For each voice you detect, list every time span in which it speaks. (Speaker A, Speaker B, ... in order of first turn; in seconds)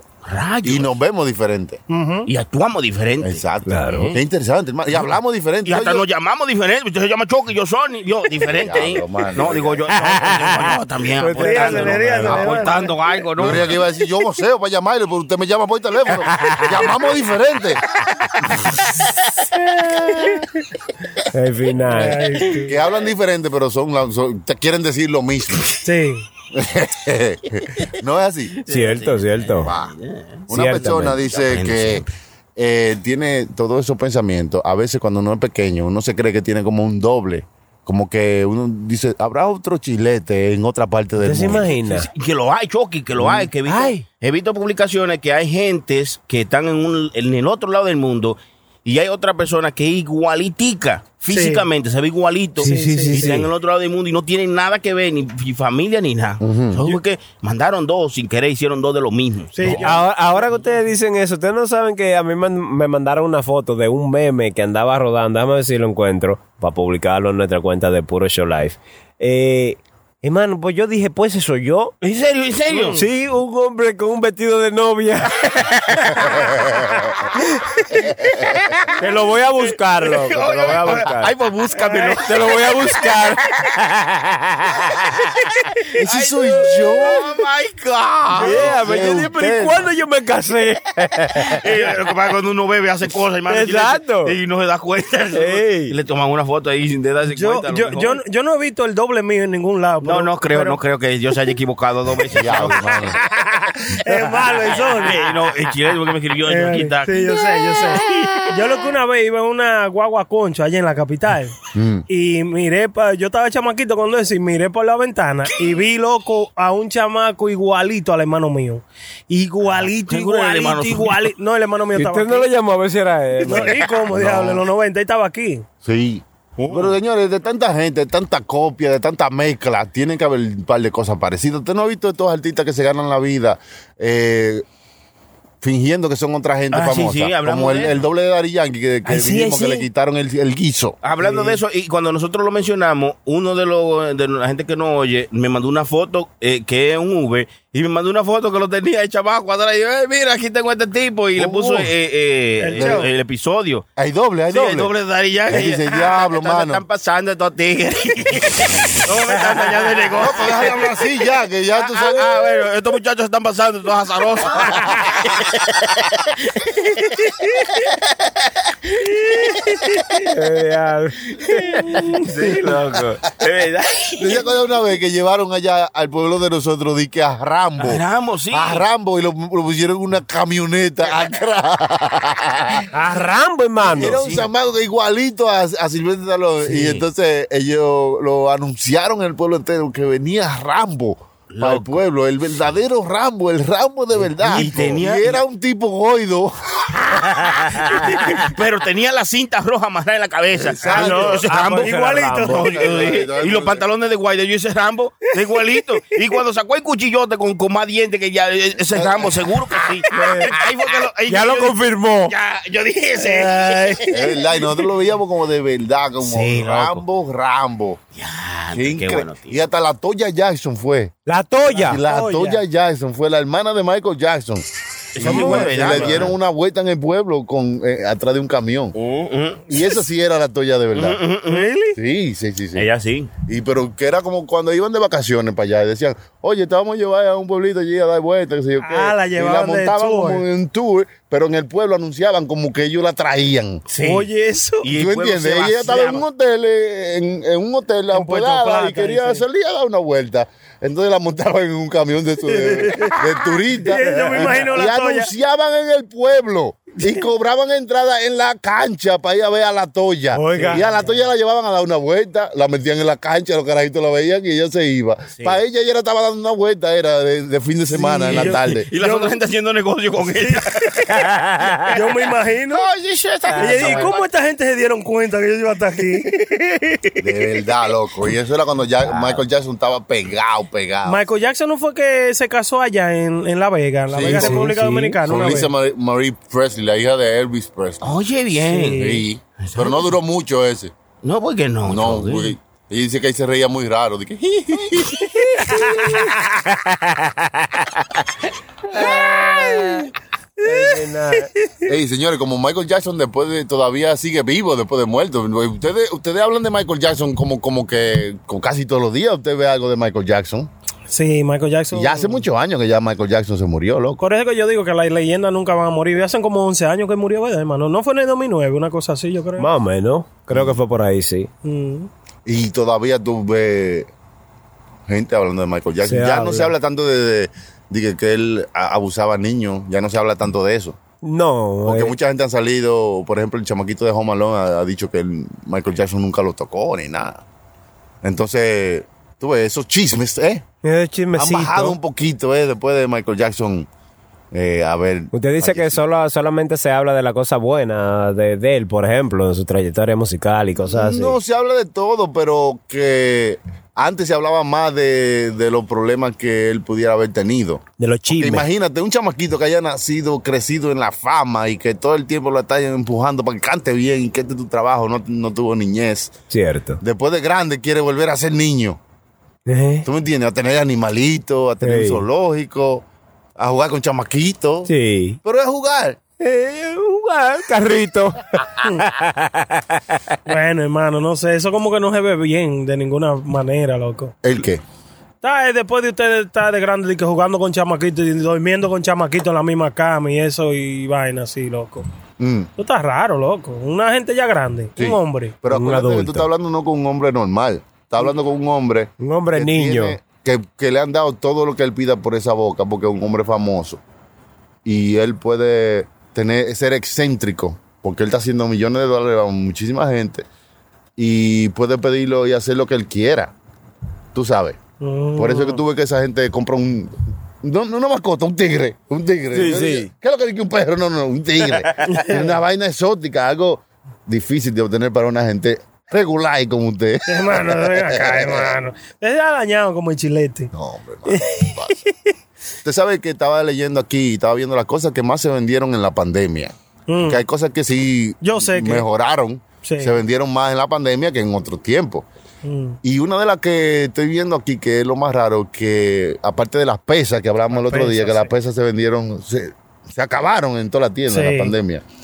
Speaker A: 0.3-0.9, 2.3-4.2, 5.6-13.7, 28.6-32.1, 41.4-59.8, 72.0-73.0, 80.0-83.3, 85.9-88.7, 91.5-98.2, 100.0-103.2, 104.8-108.5, 119.8-121.3, 123.5-123.8, 126.6-127.0, 136.7-138.0, 141.0-153.8, 154.5-160.8, 161.8-168.3, 168.8-170.1, 171.4-174.4, 177.8-178.8, 183.9-184.5, 186.7-187.0, 191.5-192.0, 194.4-195.4, 197.3-214.2, 216.2-217.0, 218.2-219.6, 225.1-226.3, 228.9-229.6, 230.9-231.8, 232.7-233.3, 243.9-244.3, 244.8-246.2, 268.3-271.3, 272.7-274.2, 288.0-290.1, 291.2-292.5
Speaker B: 0.6-1.8, 3.2-6.0, 8.4-9.9, 13.4-17.8, 18.4-18.7, 21.9-25.8, 26.5-28.6, 29.6-29.9, 30.5-32.0, 32.6-41.7, 43.2-43.5, 56.4-56.8, 86.0-87.3, 88.4-89.9, 102.3-103.2, 111.7-112.0, 124.1-124.6, 125.8-134.6, 135.6-141.0, 151.4-151.9, 152.8-153.1, 154.0-154.9, 155.5-156.8, 160.2-162.3, 174.2-182.8, 183.9-197.0, 200.5-201.4, 202.5-203.8, 208.9-209.6, 214.1-218.0, 218.7-221.1, 221.8-228.9, 229.7-231.2, 231.9-232.9, 233.4-243.8, 244.9-268.9, 277.2-281.2, 284.1-284.7, 285.2-288.1, 288.9-290.9, 291.8-295.9, 301.8-310.7, 311.9-314.2, 320.5-320.8, 322.4-324.1, 325.1-331.0, 331.8-337.4, 338.2-340.6, 341.3-343.9, 344.5-346.0, 350.8-366.3, 367.0-369.0, 370.0-373.0, 373.6-374.9, 375.4-376.2, 384.4-384.8, 392.4-392.7, 395.0-404.0, 404.8-410.4, 411.2-413.5, 414.3-414.8, 415.4-428.8, 430.7-431.9, 432.8-442.2, 443.0-452.0
Speaker C: 1.9-2.3, 11.3-13.0, 21.9-22.8, 25.8-26.2, 51.3-51.6, 52.6-53.3, 59.5-60.7, 72.7-73.1, 81.7-82.2, 97.3-100.8, 103.8-105.2, 106.5-111.5, 112.1-122.5, 123.5-125.6, 152.6-153.1, 200.8-202.7, 213.2-214.4, 221.7-222.6, 225.3-225.8, 231.5-232.0, 238.8-240.4, 244.0-244.9, 248.1-249.4, 252.5-255.3, 267.9-269.3, 270.4-271.1, 271.9-272.8, 273.6-277.0, 281.1-285.7, 288.7-289.2, 299.1-299.9, 300.6-301.7, 311.1-312.4, 314.2-319.7, 321.6-322.1, 380.5-384.3, 385.4-392.0, 392.8-395.5, 415.0-415.8, 422.1-422.5, 427.3-430.7, 431.3-432.3, 437.1-437.4, 438.4-439.0, 439.8-440.1, 442.6-443.0, 447.7-448.5, 451.3-451.7
Speaker D: 3.7-4.2, 9.9-12.5, 16.3-16.8, 21.3-22.2, 28.7-29.7, 30.5-31.2, 41.2-42.1, 43.6-44.0, 52.6-53.5, 59.7-71.9, 72.9-76.6, 77.3-78.0, 79.0-81.3, 82.2-85.3, 88.4-91.6, 93.5-94.3, 95.3-95.9, 122.0-123.7, 139.1-139.8, 170.2-172.0, 182.9-184.2, 197.7-198.0, 201.5-202.6, 210.1-210.5, 211.3-212.3, 221.2-222.0, 225.2-226.0, 260.3-260.8, 271.4-271.9, 273.5-274.0, 284.3-285.2, 296.8-297.8, 298.9-300.1, 300.6-301.5, 319.6-321.5, 326.0-326.7, 331.2-332.1, 340.8-342.0, 345.3-351.4, 358.0-358.7, 366.5-367.0, 369.7-370.1, 371.8-372.2, 374.9-375.4, 376.4-380.4, 395.7-396.5, 399.2-400.2, 419.5-420.1